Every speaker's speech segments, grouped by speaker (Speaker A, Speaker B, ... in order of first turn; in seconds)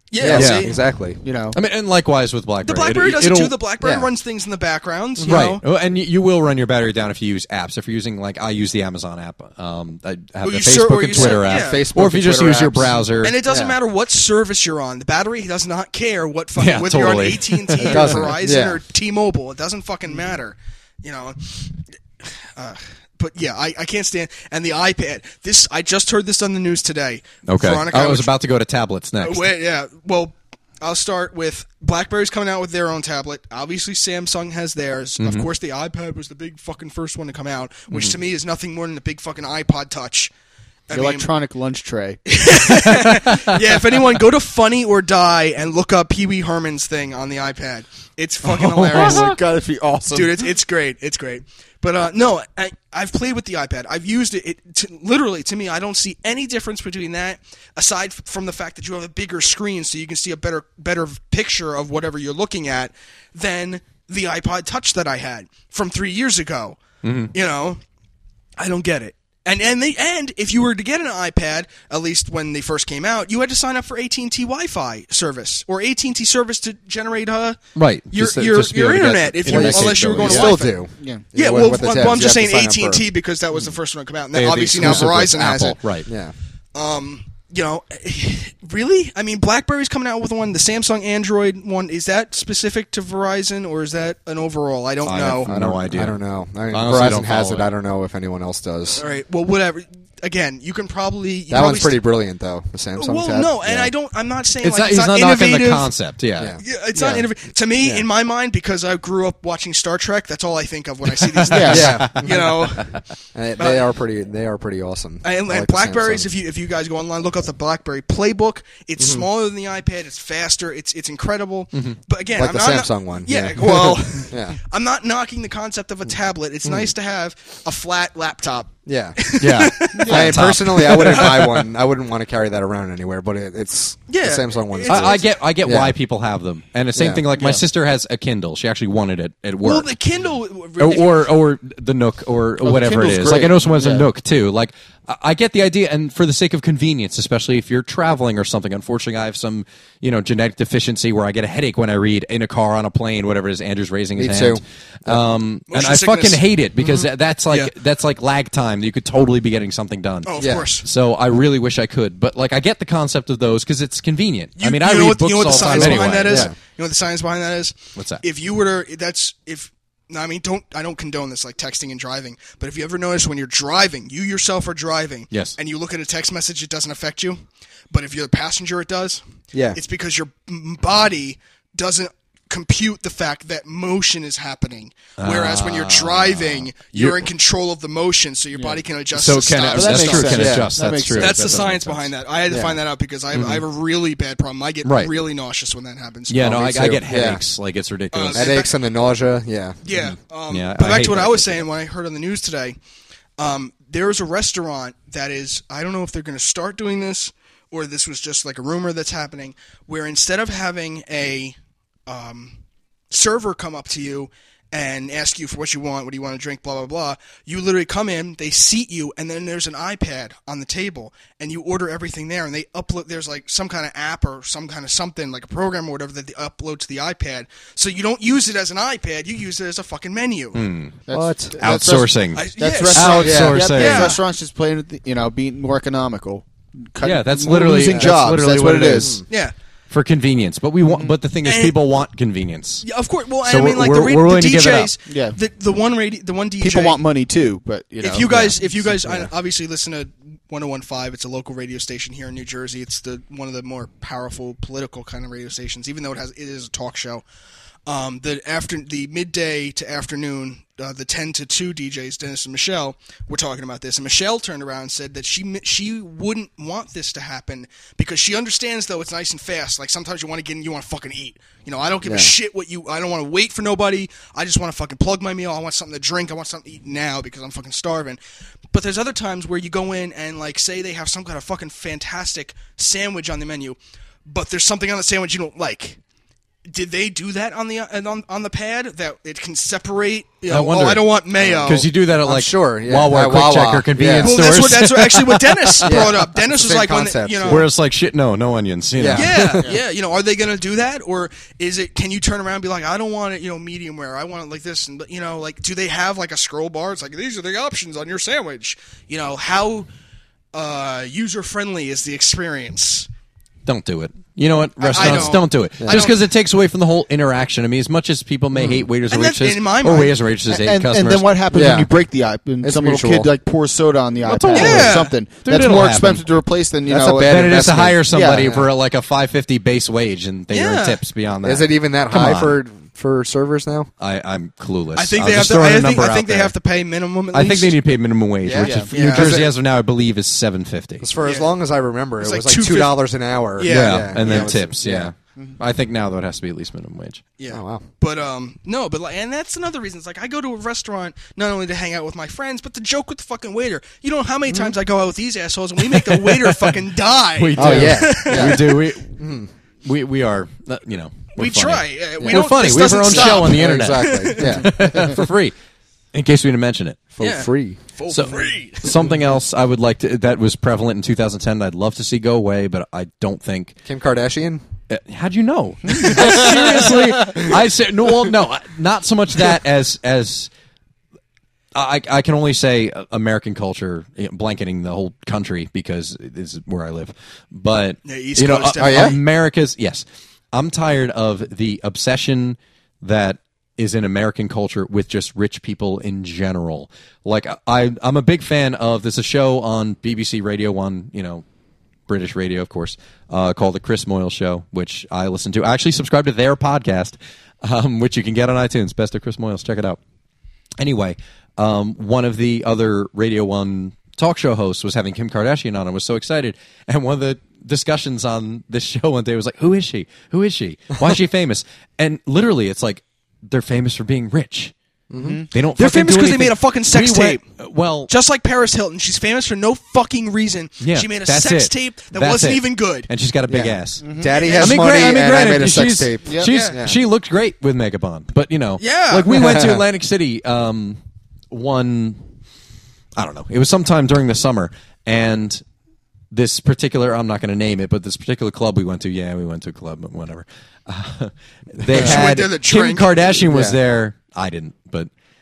Speaker A: 0.1-0.7, 2.6-5.6, 10.4-11.8, 13.2-28.3, 29.2-40.3, 40.9-41.3, 42.3-49.4, 50.1-66.8, 67.3-67.8, 68.6-77.6, 78.1-80.8, 81.3-85.8, 86.7-95.5, 99.0-102.0, 103.0-105.9, 106.6-113.0, 113.6-113.8, 115.2-131.6, 134.1-135.3, 139.6-141.3, 155.7-156.4, 160.2-160.8, 164.6-177.4, 177.9-179.2, 179.7-190.5, 191.1-196.6, 198.1-198.7, 199.8-202.8, 203.4-212.6, 213.1-230.6, 232.3-234.2, 241.4-241.8, 242.8-247.0, 248.0-257.2, 257.9-278.2, 278.7-286.0, 286.7-291.9, 294.2-297.6, 299.1-309.9, 310.5-313.1, 314.8-316.2, 319.1-320.1, 324.5-325.1, 330.5-331.0, 334.9-337.8, 338.9-339.5, 341.2-341.5, 342.2-343.0, 343.6-344.6, 347.4-358.8, 361.4-365.1, 367.2-369.0, 388.1-389.2, 425.8-427.4, 428.1-433.1, 434.3-435.2, 436.5-436.8, 438.8-439.3, 451.9-453.2
Speaker B: 0.2-1.2, 3.8-4.1, 5.2-5.4, 11.1-13.8, 17.8-18.8, 79.5-83.1, 84.8-85.2, 86.0-86.3, 95.4-99.0, 101.5-103.9, 106.4-107.3, 107.8-108.1, 111.7-112.5, 113.3-116.3, 119.0-119.2, 122.3-124.6, 128.8-129.3, 130.1-135.9, 136.9-137.2, 143.7-144.1, 154.2-155.2, 160.4-160.7, 165.6-166.6, 179.5-179.8, 190.3-190.7, 192.5-192.8, 196.4-197.4, 198.3-199.8, 231.1-231.6, 233.2-233.7, 237.8-238.2, 238.9-239.2, 272.0-272.3, 291.4-294.4, 295.8-297.7, 299.0-299.7, 315.0-315.3, 315.8-316.1, 318.6-318.8, 321.5-321.9, 322.6-323.3, 326.9-328.7, 331.4-333.9, 338.4-339.5, 341.0-345.1, 347.5-347.8, 357.6-359.5, 362.2-365.2, 367.1-367.8, 373.8-374.6, 376.1-376.7, 388.8-389.2, 425.1-425.4, 433.5-437.0, 439.3-439.9, 451.9-452.3, 453.5-453.8
Speaker C: 0.2-0.8, 1.5-3.6, 5.2-13.4, 16.6-18.4, 27.4-29.5, 35.2-35.5, 37.9-38.2, 42.6-43.5, 48.4-49.4, 67.0-67.3, 77.7-80.6, 84.3-86.1, 95.0-97.7, 104.6-106.6, 111.3-112.8, 129.4-131.6, 134.9-139.9, 140.8-166.5, 167.9-168.2, 175.3-175.6, 185.2-187.3, 189.1-192.1, 193.3-193.6, 194.8-195.1, 196.3-198.6, 199.9-201.7, 230.5-230.9, 231.6-234.2, 237.0-239.2, 239.9-242.9, 243.4-244.9, 290.5-291.1, 291.6-296.1, 297.5-299.6, 313.6-321.2, 324.2-326.3, 327.2-332.6, 334.0-336.6, 337.3-341.1, 343.6-347.2, 355.8-356.8, 357.4-365.5, 366.1-367.1, 368.1-373.7, 374.9-380.5, 381.7-401.4, 402.1-410.0, 410.8-424.7, 425.5-428.1, 430.8-441.0, 441.5-442.2, 443.1-445.6, 446.3-455.1
Speaker D: 1.2-1.6, 40.9-42.2, 48.9-50.4, 81.0-81.2, 111.5-112.1, 129.9-130.3, 137.4-137.6, 142.6-143.6, 188.5-188.8, 189.7-191.7, 231.1-239.2, 245.1-245.4, 246.6-249.3, 320.5-327.5, 328.1-328.5, 338.6-338.9, 425.2-425.5, 434.0-434.4, 436.2-436.5